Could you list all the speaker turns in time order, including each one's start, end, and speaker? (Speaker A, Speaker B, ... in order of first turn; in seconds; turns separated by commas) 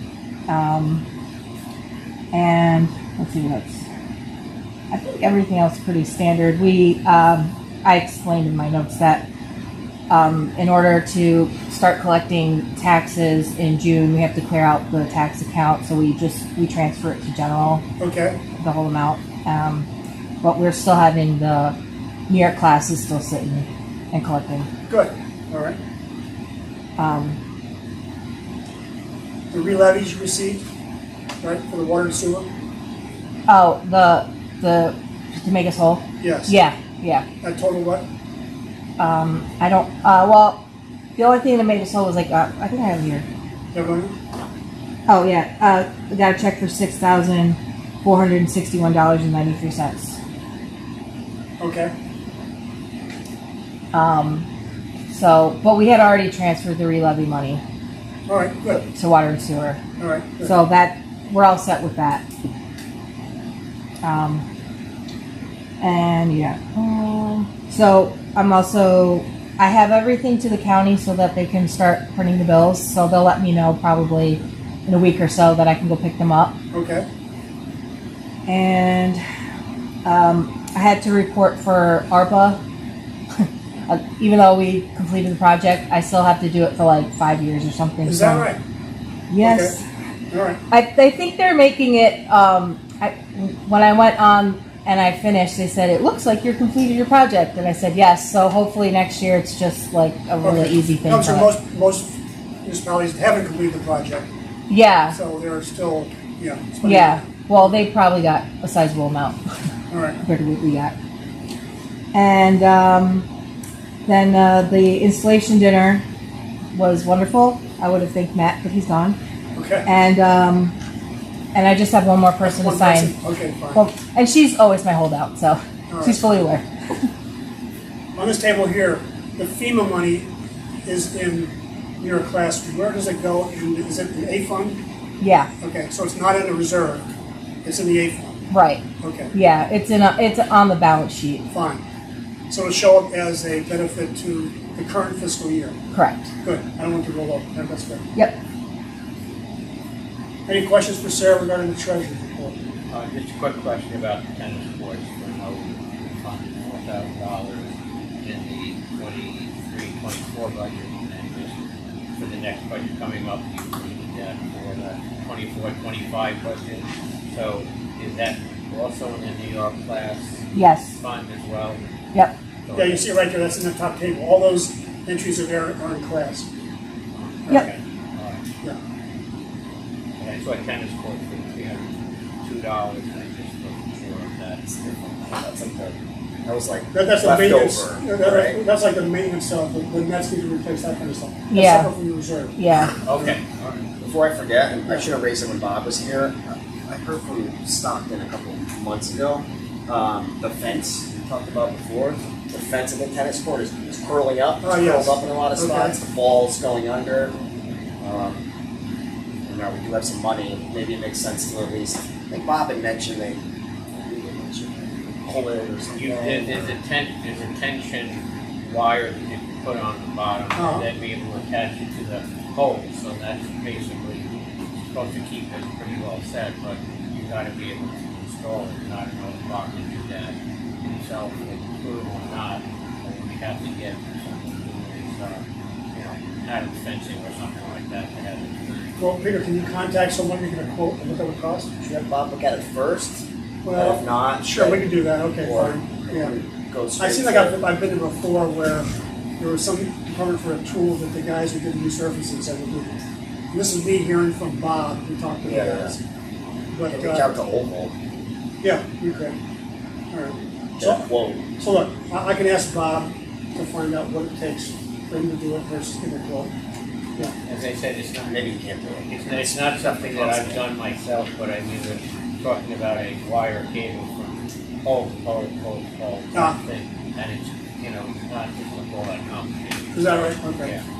Speaker A: 0.5-1.1, Speaker A: 2.3-3.9, Speaker A: 4.9-9.3, Speaker A: 10.1-17.8, Speaker B: 18.0-18.4, Speaker A: 18.6-19.9, Speaker A: 20.4-21.8, Speaker A: 22.3-24.7, Speaker B: 24.9-25.8, Speaker A: 27.0-27.4, Speaker B: 29.5-30.6, Speaker B: 31.4-32.5, Speaker A: 33.5-37.3, Speaker B: 36.2-36.5, Speaker B: 37.4-38.1, Speaker A: 39.0-40.6, Speaker A: 41.2-43.2, Speaker B: 43.7-44.1, Speaker A: 45.1-50.2, Speaker B: 51.6-51.9, Speaker A: 53.9-54.5, Speaker A: 55.1-57.6, Speaker B: 58.3-58.8, Speaker A: 58.7-59.8, Speaker B: 60.0-60.5, Speaker A: 60.5-62.2, Speaker A: 64.0-64.5, Speaker A: 65.8-76.6, Speaker B: 76.7-77.1, Speaker A: 78.5-79.2, Speaker A: 80.0-82.6, Speaker A: 83.4-88.5, Speaker B: 88.0-88.6, Speaker A: 89.3-89.8, Speaker B: 89.4-89.8, Speaker B: 90.3-90.6, Speaker A: 90.7-101.5, Speaker B: 100.4-104.3, Speaker A: 104.7-105.2, Speaker B: 105.1-107.9, Speaker A: 106.8-109.4, Speaker B: 109.9-110.2, Speaker A: 110.2-111.0, Speaker A: 112.1-113.3, Speaker A: 114.0-116.0, Speaker A: 116.7-119.2, Speaker B: 119.5-119.9, Speaker A: 119.9-120.8, Speaker A: 121.5-123.1, Speaker B: 122.4-123.8, Speaker A: 123.8-126.7, Speaker B: 125.9-126.4, Speaker B: 128.2-130.3, Speaker B: 130.9-134.8, Speaker A: 135.2-135.5, Speaker B: 135.6-137.1, Speaker B: 137.6-138.3, Speaker A: 138.5-141.4, Speaker B: 139.0-139.3, Speaker B: 141.5-141.8, Speaker B: 142.5-145.8, Speaker A: 145.9-146.3, Speaker B: 146.4-148.0, Speaker B: 150.5-152.6, Speaker C: 152.9-161.6, Speaker C: 162.2-171.8, Speaker A: 170.5-171.0, Speaker C: 172.7-173.2, Speaker B: 172.8-176.5, Speaker C: 177.2-178.4, Speaker C: 180.2-181.9, Speaker C: 182.4-184.7, Speaker D: 184.7-188.6, Speaker B: 186.9-192.6, Speaker A: 191.5-191.9, Speaker A: 192.6-193.0, Speaker C: 193.1-193.9, Speaker D: 194.0-207.4, Speaker B: 204.6-206.0, Speaker D: 208.0-208.4, Speaker D: 209.5-216.8, Speaker C: 216.0-224.3, Speaker B: 220.6-220.9, Speaker C: 224.9-238.9, Speaker B: 239.0-241.7, Speaker D: 241.8-243.2, Speaker B: 243.7-246.4, Speaker D: 243.8-247.6, Speaker B: 247.0-252.9, Speaker B: 253.5-256.0, Speaker D: 255.4-256.0, Speaker B: 256.7-257.3, Speaker D: 256.9-257.9, Speaker B: 258.6-259.4, Speaker B: 260.1-261.1, Speaker D: 260.8-261.5, Speaker B: 261.6-266.5, Speaker C: 267.4-280.8, Speaker D: 268.3-270.6, Speaker B: 279.9-280.7